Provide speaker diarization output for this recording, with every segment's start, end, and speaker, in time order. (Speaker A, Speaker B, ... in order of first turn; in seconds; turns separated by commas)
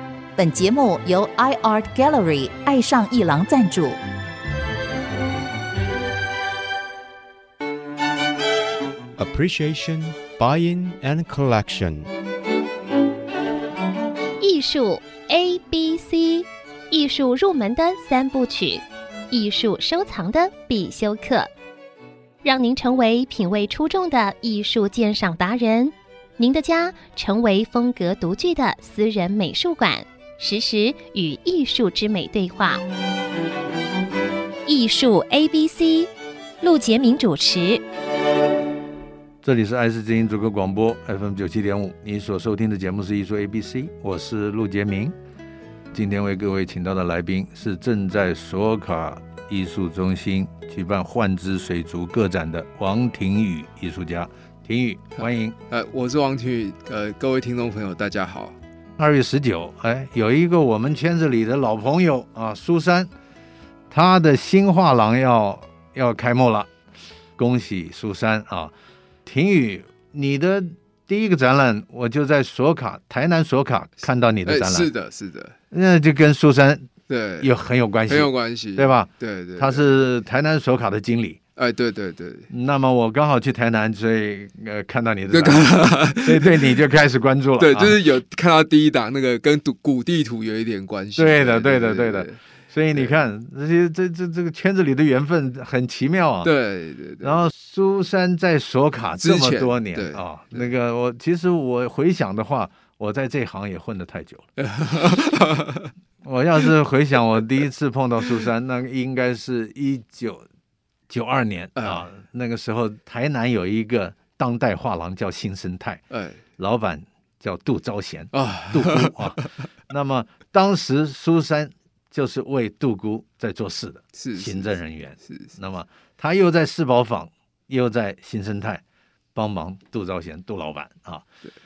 Speaker A: 0.3-4.0, Speaker B: 9.2-12.1, Speaker C: 14.4-21.5, Speaker C: 22.4-32.8, Speaker C: 34.6-36.1, Speaker C: 36.6-37.8, Speaker D: 39.4-45.1, Speaker D: 45.9-55.6, Speaker E: 55.2-58.6, Speaker D: 59.0-63.1, Speaker D: 63.9-66.7, Speaker D: 67.4-68.7, Speaker D: 69.2-74.9, Speaker E: 74.4-75.5, Speaker D: 75.7-76.9, Speaker E: 77.1-77.5, Speaker D: 77.4-81.4, Speaker E: 78.1-79.8, Speaker E: 81.5-82.5, Speaker D: 82.5-88.0, Speaker E: 85.3-86.8, Speaker E: 87.6-93.1, Speaker D: 91.2-96.5, Speaker E: 96.4-97.5, Speaker D: 97.2-104.5, Speaker E: 99.2-100.7, Speaker E: 104.6-105.9, Speaker D: 106.2-110.5, Speaker D: 111.1-116.0, Speaker E: 111.8-112.0, Speaker E: 116.1-116.4, Speaker D: 116.6-128.8, Speaker E: 118.3-119.6, Speaker E: 124.2-124.7, Speaker E: 125.2-125.5, Speaker D: 129.3-131.2